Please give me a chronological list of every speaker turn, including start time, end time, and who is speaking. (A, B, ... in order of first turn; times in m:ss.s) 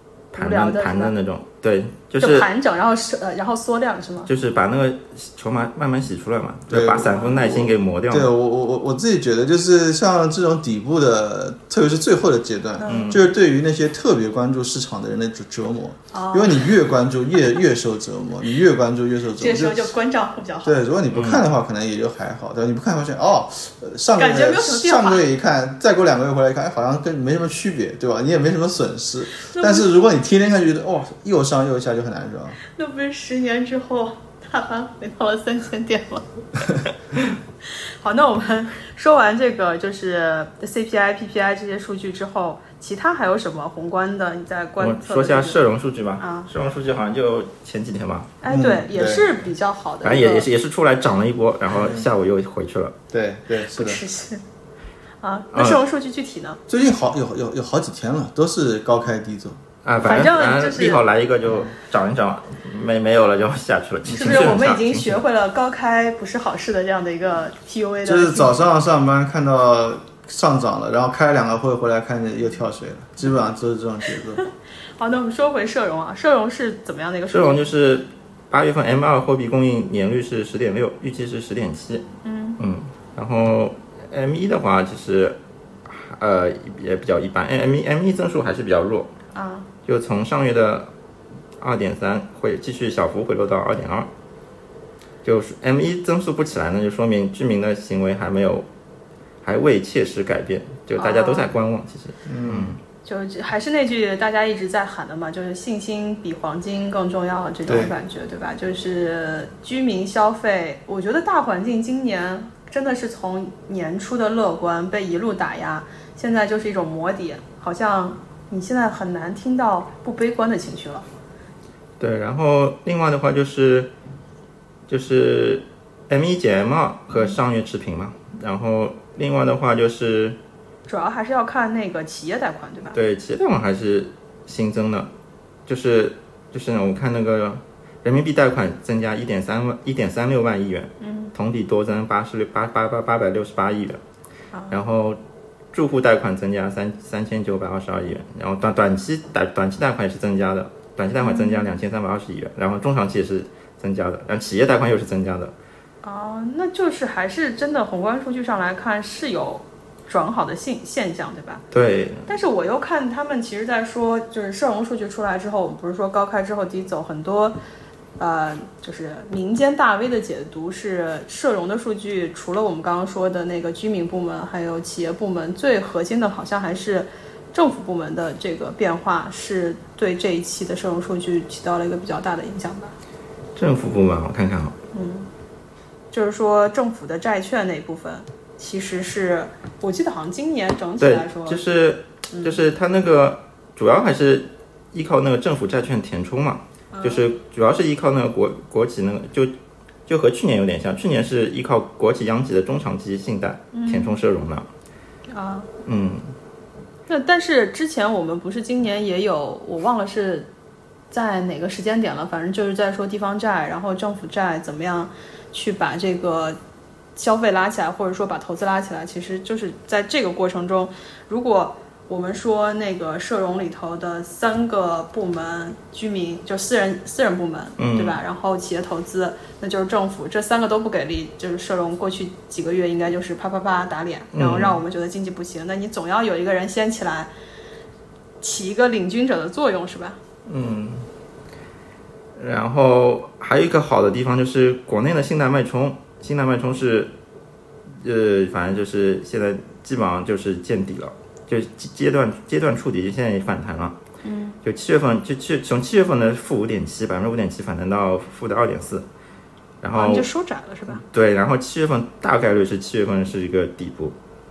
0:00.3-0:02.5 A
0:00.4-0:01.2 B
0:02.2-0:04.3 B
0:04.3-0:08.3 A
0:06.7-0:19.9 C
0:07.1-0:07.4 B
0:12.8-0:13.3 B
0:12.8-0:13.3 A
0:16.1-0:16.7 B
0:19.4-0:20.9 B
0:20.6-0:32.6 C
0:21.1-0:21.5 A
0:24.2-0:25.2 B
0:29.4-0:29.9 B
0:32.7-0:36.2 B
0:37.6-0:45.6 B
0:44.8-0:48.3 A
0:46.2-0:46.5 B
0:48.4-0:50.5 B
0:48.5-0:49.3 C
0:50.0-0:53.0 A
0:51.7-0:52.1 C
0:53.1-0:54.0 C
0:53.7-0:54.4 B
0:55.2-0:56.6 B
0:55.5-0:55.8 A
0:56.7-0:59.6 C
0:59.8-1:05.2 A
1:00.0-1:01.0 B
1:01.5-1:01.7 C
1:04.1-1:04.4 C
1:04.1-1:08.6 B
1:08.0-1:14.4 C
1:15.0-1:17.7 B
1:17.3-1:22.1 A
1:22.2-1:22.6 B
1:22.6-1:29.1 A
1:29.3-1:29.7 B
1:29.9-1:30.9 A
1:31.6-1:34.1 A
1:35.2-1:38.7 A
1:39.4-1:42.8 A
1:41.0-1:41.5 B
1:42.3-1:42.7 C
1:43.0-2:01.0 B
1:47.7-1:47.9 C
2:02.0-2:03.9 A
2:04.9-2:10.4 A
2:10.9-2:13.0 B
2:12.9-2:15.1 A
2:15.7-2:24.0 A
2:21.0-2:21.3 B
2:24.5-2:24.8 B
2:24.7-2:25.2 A
2:25.7-2:35.5 A
2:31.2-2:31.7 B
2:36.0-2:41.6 B
2:41.7-2:42.3 A
2:42.3-2:47.6 B
2:48.2-3:02.9 B
3:03.6-3:04.8 A
3:04.9-3:05.3 B
3:06.1-3:11.6 B
3:11.0-3:19.5 A
3:12.3-3:12.6 B
3:16.9-3:17.3 B
3:20.1-3:24.7 A
3:23.7-3:24.2 B
3:25.3-3:25.7 B
3:25.8-3:26.3 A
3:27.1-3:30.5 B
3:31.1-3:36.6 B
3:37.2-3:57.3 B
3:47.8-3:48.2 A
3:54.3-3:54.8 A
3:58.4-4:00.2 B
4:00.5-4:01.1 A
4:02.4-4:07.2 A
4:08.0-4:14.0 A
4:14.2-4:14.6 B
4:14.6-4:19.1 A
4:19.8-4:20.3 A
4:20.0-4:21.0 B
4:20.9-4:24.2 A